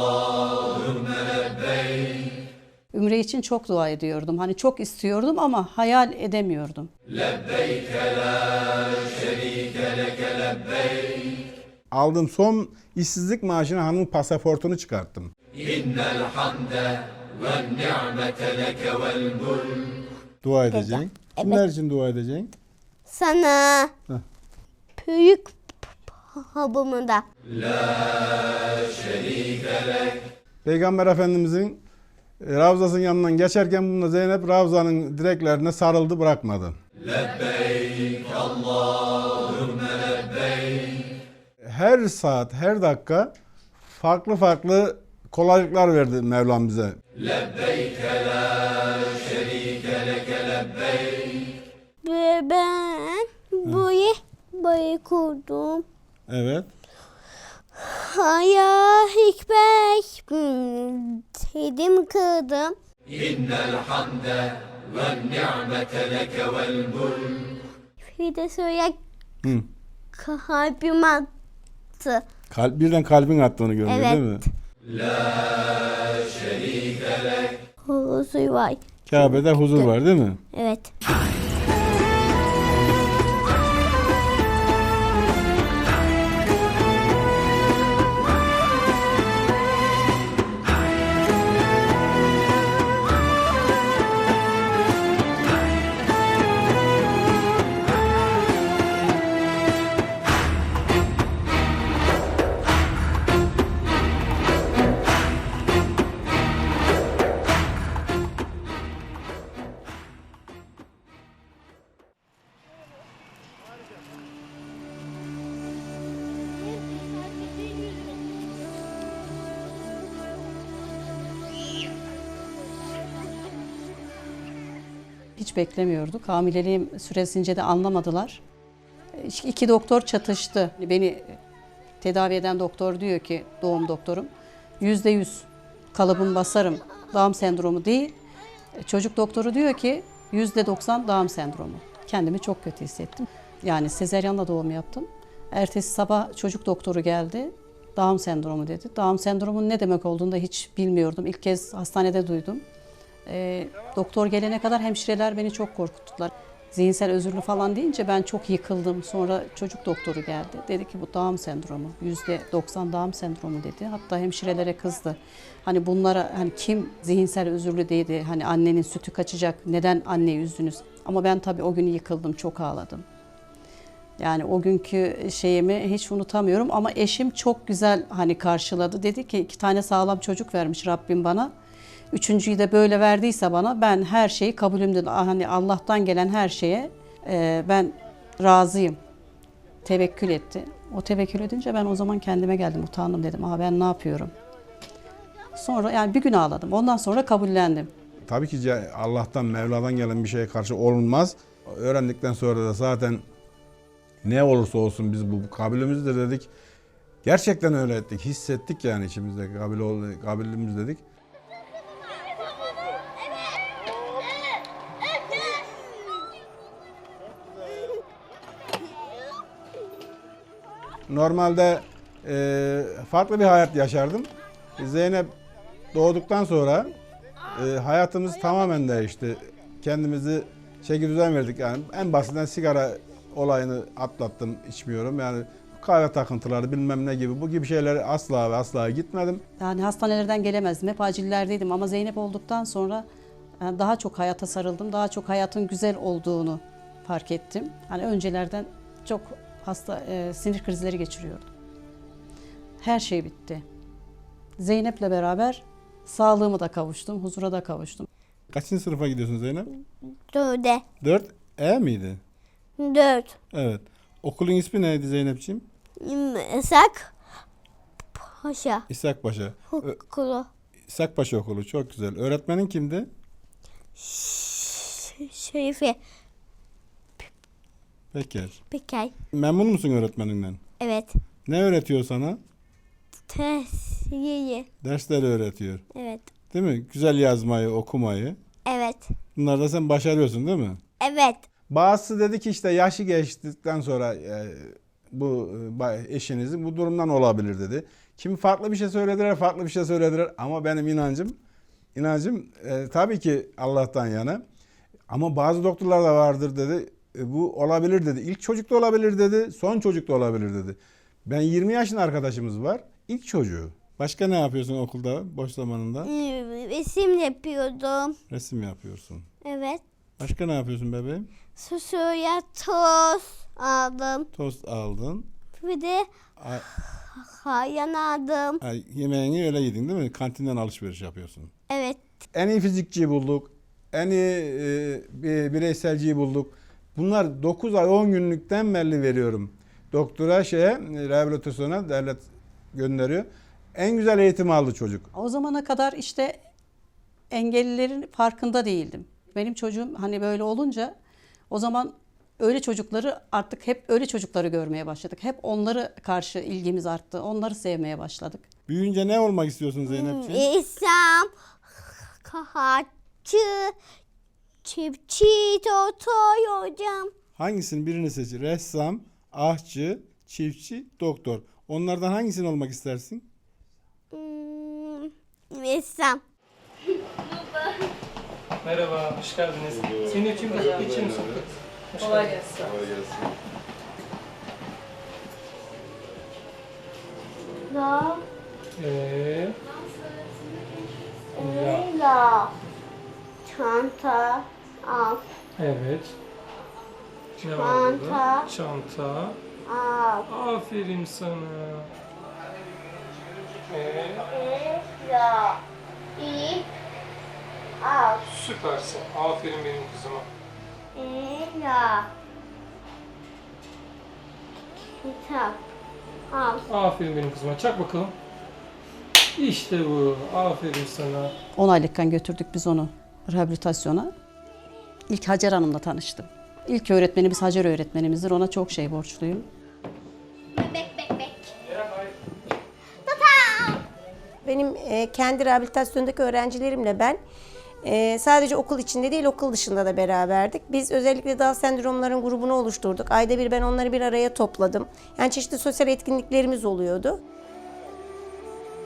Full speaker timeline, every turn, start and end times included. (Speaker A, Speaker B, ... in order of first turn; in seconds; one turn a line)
Speaker A: 2.9-6.9
Speaker B: 11.9-15.3
Speaker B: 20.4-22.5
Speaker C: 20.7-21.6
Speaker C: 23.1-23.9
Speaker C: 25.0-27.2
Speaker B: 30.6-31.8
Speaker B: 32.4-36.8
Speaker B: 41.6-43.3
Speaker B: 43.9-47.0
Speaker C: 52.0-55.8
Speaker B: 56.3-56.7
Speaker C: 57.8-62.8
Speaker C: 65.3-66.0
Speaker C: 68.0-69.0
Speaker C: 70.1-71.3
Speaker C: 72.0-72.2
Speaker B: 72.5-74.5
Speaker C: 73.9-74.2
Speaker C: 77.8-79.9
Speaker B: 79.1-80.4
Speaker C: 80.5-80.9
Speaker A: 125.4-128.4
Speaker A: 129.1-131.4
Speaker A: 132.0-138.2
Speaker A: 138.8-152.6
Speaker A: 153.2-173.1
Speaker A: 174.2-181.5
Speaker A: 182.1-189.0
Speaker A: 189.8-194.3
Speaker A: 195.5-197.9
Speaker B: 198.3-203.2
Speaker B: 204.2-206.5
Speaker B: 207.2-211.0
Speaker B: 221.1-225.3
Speaker B: 225.9-226.9
Speaker B: 227.5-239.4
Speaker A: 239.6-243.1
Speaker A: 243.6-251.5
Speaker A: 252.8-253.6
Speaker A: 254.6-258.1
Speaker B: 258.5-259.7
Speaker C: 260.3-260.8
Speaker B: 261.0-262.2
Speaker C: 262.8-263.3
Speaker B: 263.5-265.6
Speaker C: 266.0-267.1
Speaker C: 268.1-268.8
Speaker B: 268.9-270.0
Speaker C: 269.7-270.5
Speaker B: 270.9-273.1
Speaker C: 274.0-276.0
Speaker B: 278.1-278.6
Speaker C: 278.7-279.1
Speaker B: 279.3-280.6
Speaker C: 280.8-281.1
Speaker B: 281.4-282.4
Speaker C: 283.3-284.7
Speaker B: 284.8-285.8
Speaker C: 285.9-286.3
Speaker B: 286.5-288.4
Speaker C: 288.6-289.1
Speaker B: 289.3-290.8
Speaker C: 291.0-291.4
Speaker B: 291.7-301.4
Speaker B: 301.9-304.4
Speaker B: 305.1-316.1
Speaker C: 316.0-318.2
Speaker B: 318.3-319.3
Speaker C: 319.4-319.8
Speaker B: 320.2-321.3
Speaker C: 321.6-324.3
Speaker B: 324.3-325.3
Speaker C: 325.6-326.1
Speaker B: 326.4-326.6
Speaker C: 327.0-328.6
Speaker B: 328.6-331.5
Speaker C: 331.7-332.0
Speaker B: 332.3-345.1
Speaker A: 345.1-346.4
Speaker A: 347.3-350.9
Speaker A: 351.5-358.5
Speaker B: 358.7-360.5
Speaker C: 359.9-363.7
Speaker C: 364.6-367.1
Speaker B: 367.4-373.2
Speaker C: 374.1-376.2
Speaker D: 378.6-382.7
Speaker B: 379.6-381.4
Speaker B: 382.6-383.3
Speaker C: 387.7-388.2
Speaker D: 388.8-389.6
Speaker C: 391.3-392.5
Speaker D: 391.4-391.9
Speaker C: 393.4-395.2
Speaker D: 395.6-396.1
Speaker D: 397.4-399.4
Speaker C: 397.5-398.5
Speaker C: 399.6-400.2
Speaker D: 400.3-401.9
Speaker D: 403.7-404.2
Speaker C: 404.3-405.6
Speaker C: 406.2-406.7
Speaker C: 407.8-408.2
Speaker D: 408.2-410.3
Speaker C: 410.9-412.1
Speaker C: 414.9-415.6
Speaker C: 416.3-416.6
Speaker D: 416.7-418.1
Speaker D: 419.4-421.3
Speaker A: 421.6-424.1
Speaker A: 425.1-429.5
Speaker C: 430.5-431.5
Speaker C: 433.1-433.8
Speaker E: 434.4-437.2
Speaker E: 437.8-447.2